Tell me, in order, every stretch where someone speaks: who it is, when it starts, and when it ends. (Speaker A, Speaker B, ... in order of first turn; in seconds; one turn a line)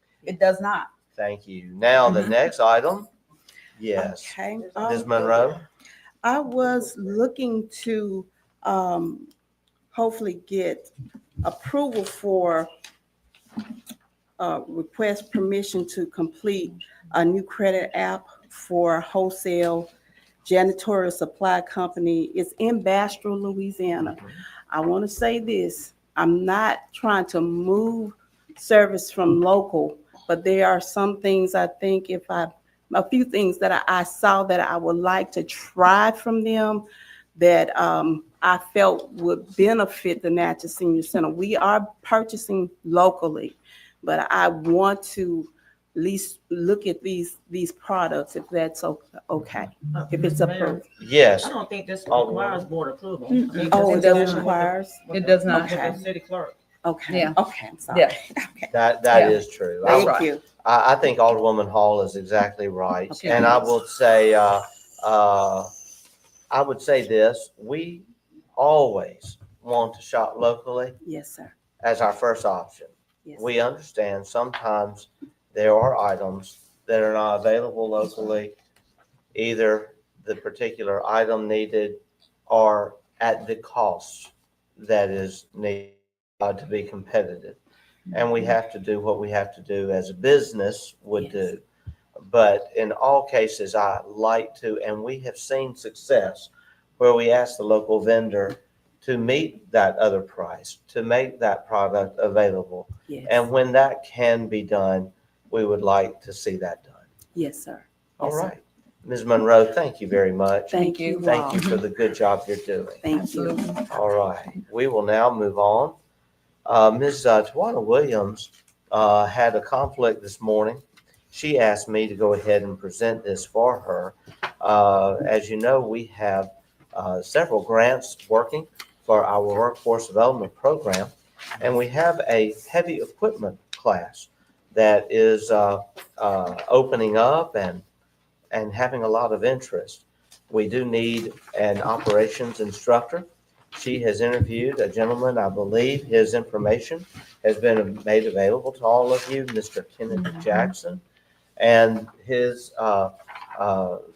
Speaker A: 0.2-0.9
Speaker B: 1.2-3.1
Speaker B: 3.8-5.6
Speaker C: 4.0-5.5
Speaker C: 6.2-9.3
Speaker C: 9.9-10.9
Speaker C: 11.4-12.7
Speaker C: 14.4-19.9
Speaker C: 20.4-50.9
Speaker D: 49.9-50.8
Speaker B: 51.0-51.6
Speaker D: 51.4-56.5
Speaker B: 52.1-52.7
Speaker A: 53.3-54.5
Speaker C: 53.7-56.1
Speaker A: 55.1-56.0
Speaker C: 56.8-58.7
Speaker A: 57.1-57.4
Speaker A: 57.9-58.2
Speaker B: 58.7-65.7
Speaker A: 59.1-60.3
Speaker C: 59.8-60.4
Speaker C: 63.1-63.6
Speaker B: 66.5-71.0
Speaker C: 71.0-71.5
Speaker B: 71.8-78.5
Speaker B: 79.3-87.6
Speaker B: 88.1-91.6
Speaker B: 92.2-107.1
Speaker C: 103.1-103.5
Speaker C: 107.3-108.5
Speaker B: 108.2-113.0
Speaker C: 110.7-111.7
Speaker A: 110.7-111.7
Speaker C: 113.0-113.7
Speaker A: 113.1-113.8
Speaker B: 113.9-116.0
Speaker B: 116.7-137.8
Speaker B: 138.5-151.0
Speaker B: 151.6-154.0